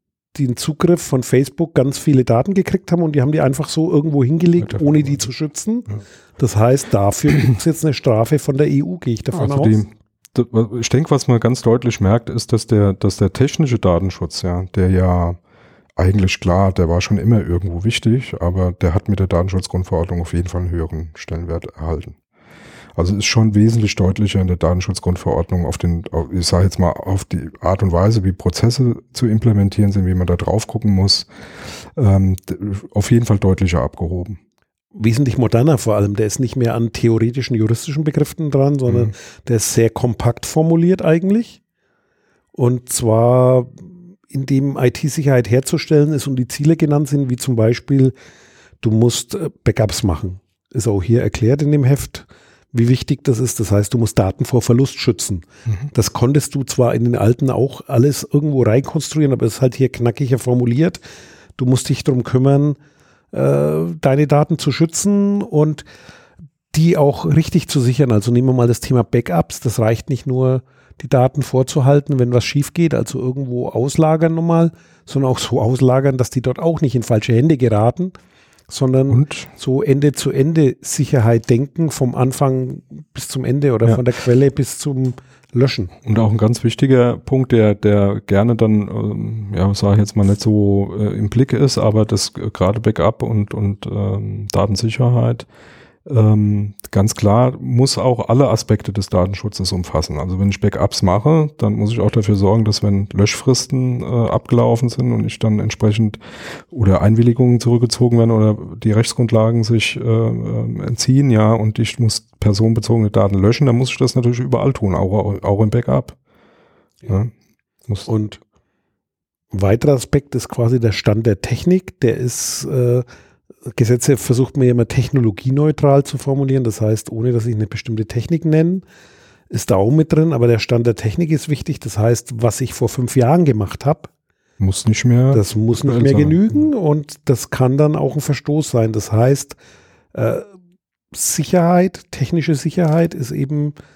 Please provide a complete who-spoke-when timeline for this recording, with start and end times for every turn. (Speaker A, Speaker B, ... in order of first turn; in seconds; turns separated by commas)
Speaker A: 0.3-9.8, Speaker B: 4.6-5.2, Speaker B: 9.3-15.4, Speaker B: 15.9-22.1, Speaker B: 22.9-31.3, Speaker B: 31.9-34.4, Speaker A: 34.9-41.6, Speaker A: 42.5-48.1, Speaker A: 48.8-61.0, Speaker A: 61.6-62.8, Speaker A: 63.3-65.8, Speaker A: 66.7-78.1, Speaker A: 78.7-85.9, Speaker B: 79.1-79.5, Speaker B: 86.0-95.5, Speaker B: 96.0-106.2, Speaker B: 106.7-116.2, Speaker B: 117.0-117.3, Speaker A: 118.1-118.4, Speaker A: 119.5-123.0, Speaker A: 123.7-128.8, Speaker A: 129.5-134.1, Speaker B: 134.6-136.6, Speaker A: 135.3-139.6, Speaker A: 140.1-140.5, Speaker A: 141.1-143.7